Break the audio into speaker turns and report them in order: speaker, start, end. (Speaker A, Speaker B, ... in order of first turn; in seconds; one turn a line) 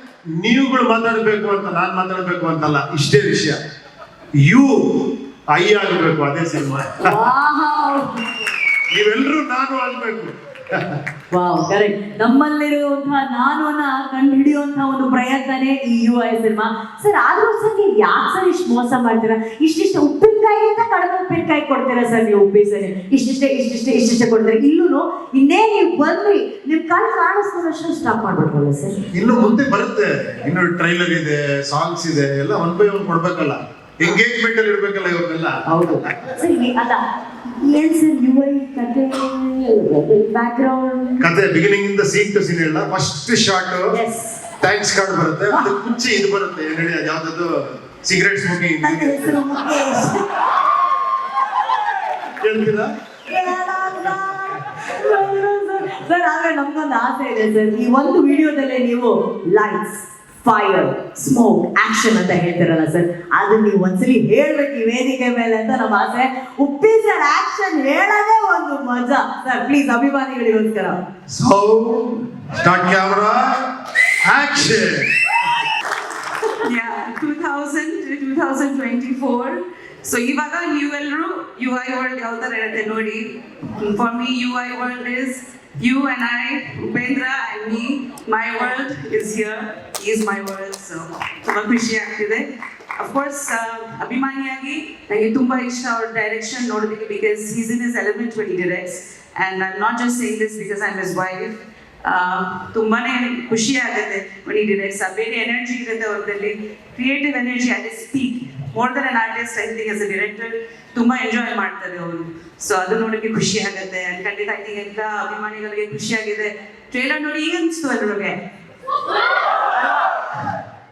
Speaker A: 0.3-3.6
Speaker A: 4.5-7.2
Speaker B: 7.0-8.1
Speaker A: 8.9-10.3
Speaker B: 11.3-29.0
Speaker A: 29.1-35.5
Speaker B: 35.7-37.0
Speaker B: 37.6-41.3
Speaker A: 41.2-44.0
Speaker B: 43.9-44.4
Speaker A: 44.6-47.5
Speaker B: 45.5-45.7
Speaker A: 48.0-49.4
Speaker B: 48.8-50.2
Speaker A: 52.4-52.9
Speaker B: 53.3-71.0
Speaker A: 71.3-73.4
Speaker A: 74.2-75.1
Speaker C: 76.6-92.5
Speaker C: 93.0-118.4
Speaker C: 119.3-120.5